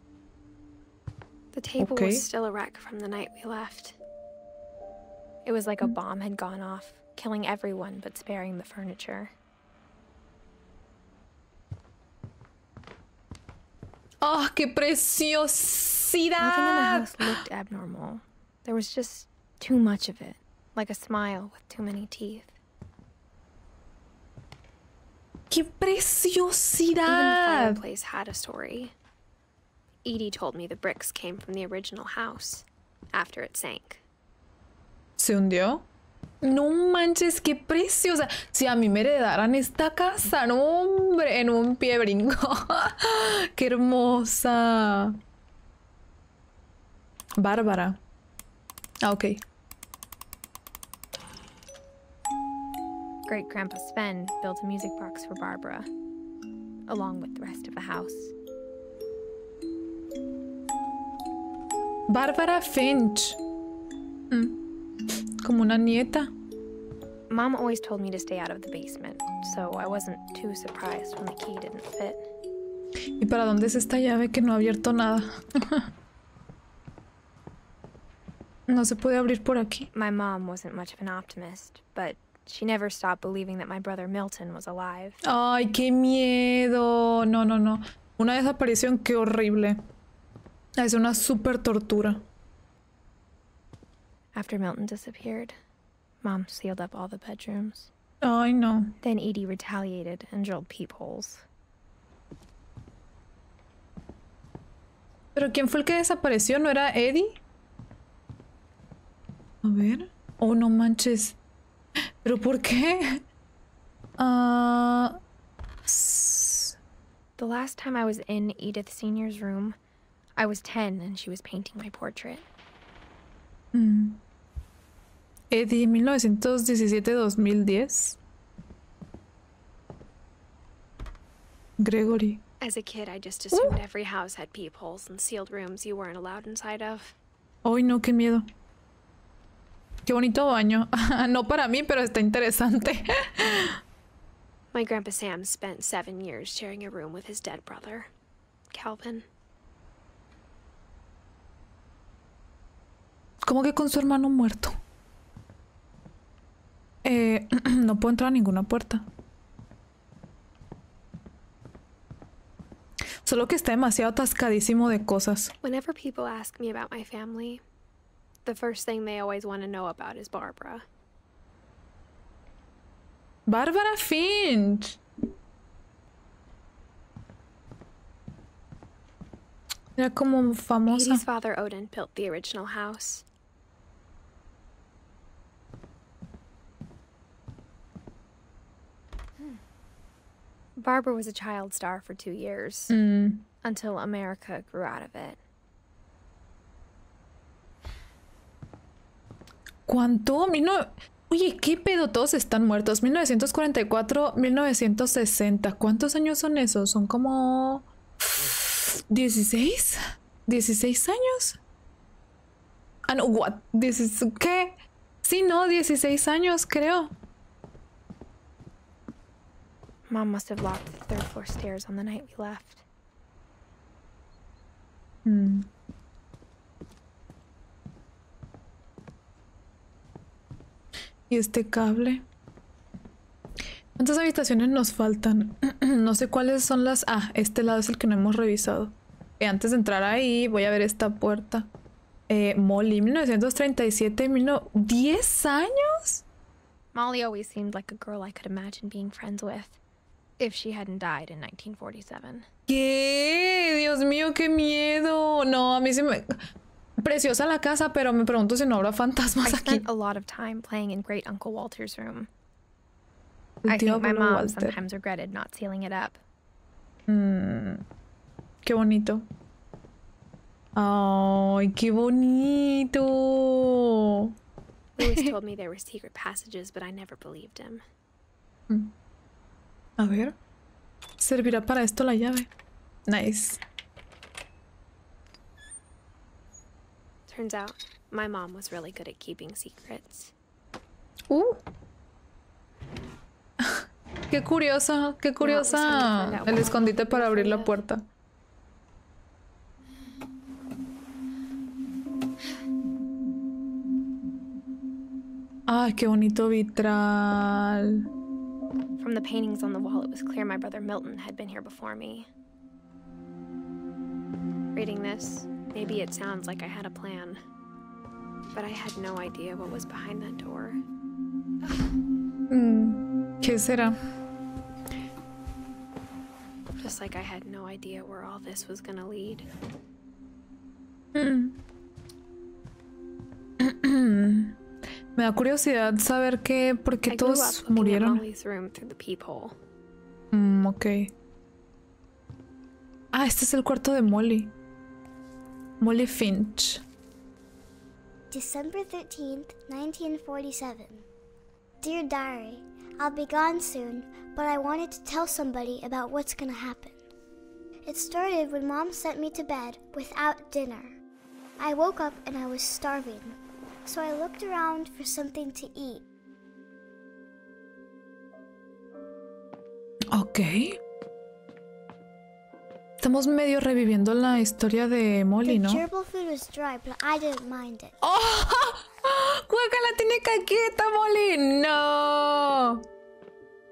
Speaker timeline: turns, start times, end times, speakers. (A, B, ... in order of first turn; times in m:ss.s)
0:01.5-0:04.0 A
0:01.8-0:02.2 B
0:05.4-0:09.3 A
0:14.2-0:17.4 B
0:16.4-0:22.6 A
0:25.5-0:27.8 B
0:27.1-0:28.9 A
0:30.0-0:34.0 A
0:35.2-0:35.8 B
0:36.4-0:45.2 B
0:47.4-0:48.0 B
0:49.0-0:49.4 B
0:53.3-0:55.9 A
0:56.9-0:58.3 A
1:02.1-1:03.4 B
1:04.3-1:04.6 B
1:05.4-1:06.3 B
1:07.3-1:12.3 A
1:13.2-1:15.8 B
1:18.7-1:19.9 B
1:19.9-1:25.2 A
1:25.2-1:29.8 B
1:30.8-1:32.2 B
1:34.3-1:35.6 A
1:36.2-1:37.9 A
1:38.2-1:38.9 B
1:39.0-1:41.4 A
1:45.4-1:47.4 B
1:49.6-1:51.4 B
1:52.2-1:53.2 B
1:54.2-1:55.2 B
1:55.9-1:56.8 B
1:57.4-1:59.8 A
2:00.4-2:02.5 A
2:03.7-2:04.2 B
2:05.5-2:08.2 B
2:11.8-2:12.4 B
2:12.6-2:17.2 A
2:13.5-2:13.8 B
2:17.6-2:18.4 B
2:20.1-2:23.8 B
2:24.7-2:28.1 A
2:28.7-2:29.3 A
2:33.4-2:34.7 B
2:37.0-2:39.1 B
2:43.2-2:45.5 B
2:45.6-2:47.6 A
2:48.4-2:50.8 A
2:53.5-2:55.0 B
3:00.0-3:01.2 B
3:00.9-3:03.2 A
3:10.8-3:12.9 A
3:12.9-3:13.4 B
3:13.6-3:15.4 A
3:19.9-3:31.6 B
3:33.1-3:37.1 B
3:40.1-3:42.8 A
3:45.2-3:45.7 B
3:51.3-3:52.2 B
3:54.0-4:01.7 B
4:02.3-4:06.2 B
4:06.9-4:09.8 A
4:10.4-4:12.5 A
4:12.7-4:16.4 B
4:17.0-4:19.8 B
4:19.4-4:22.3 A
4:23.6-4:24.8 B
4:23.7-4:26.2 A
4:27.1-4:27.8 B
4:28.6-4:29.2 B
4:30.8-4:34.3 B
4:35.0-4:37.8 A
4:35.0-4:35.3 B
4:40.0-4:40.4 B
4:41.2-4:42.5 B
4:43.1-4:43.6 B
4:47.3-4:50.3 A
4:51.3-4:51.6 B
4:53.6-4:58.0 B
4:55.4-4:57.8 A
5:05.7-5:08.0 B
5:09.0-5:12.3 A
5:14.8-5:17.4 A
5:18.5-5:20.8 A
5:22.5-5:24.0 B
5:26.8-5:29.5 A
5:31.1-5:31.6 B
5:33.6-5:34.6 B
5:35.2-5:38.2 B
5:37.1-5:39.6 A
5:40.3-5:41.1 B
5:43.1-5:44.5 B
5:45.8-5:46.8 B
5:48.3-5:51.1 C
5:51.8-5:57.0 C
5:57.8-6:01.0 C
6:01.6-6:06.0 C
6:10.1-6:10.8 B
6:13.0-6:15.8 B
6:15.4-6:18.0 C
6:18.0-6:22.8 B